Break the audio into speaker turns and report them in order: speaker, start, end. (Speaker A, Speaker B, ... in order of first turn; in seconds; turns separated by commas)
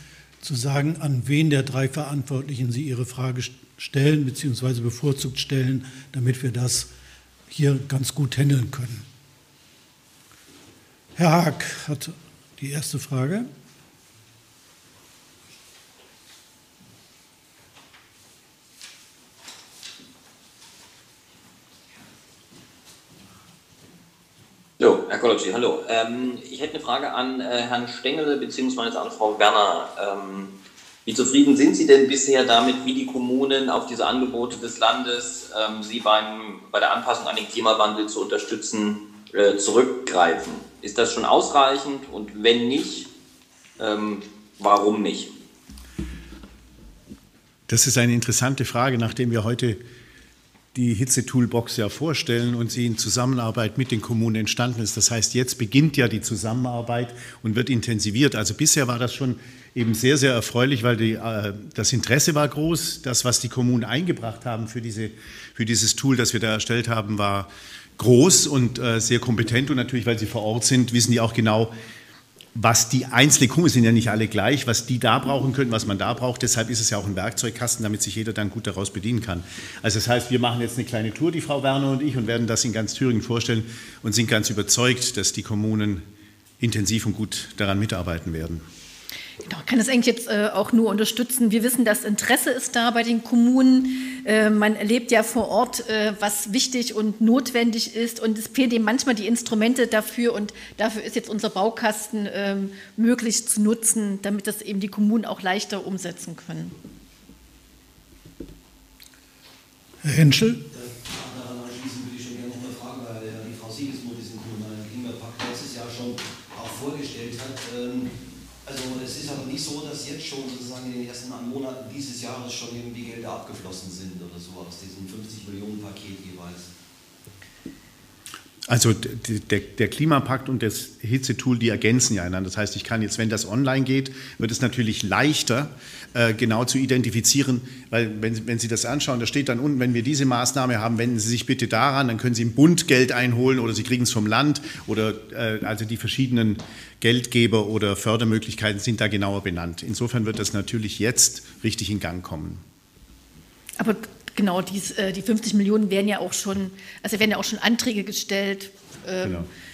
Speaker A: 0.4-6.9, Speaker A: 7.5-9.1, Speaker A: 11.2-13.5, Speaker B: 24.8-30.5, Speaker B: 31.1-43.1, Speaker B: 43.8-45.3, Speaker C: 47.7-49.8, Speaker C: 50.7-71.7, Speaker C: 72.5-86.0, Speaker C: 86.6-88.6, Speaker D: 89.5-106.7, Speaker A: 110.0-110.7, Speaker E: 110.7-118.1, Speaker E: 118.6-126.7, Speaker C: 128.7-152.6, Speaker D: 153.8-159.5, Speaker C: 159.2-159.5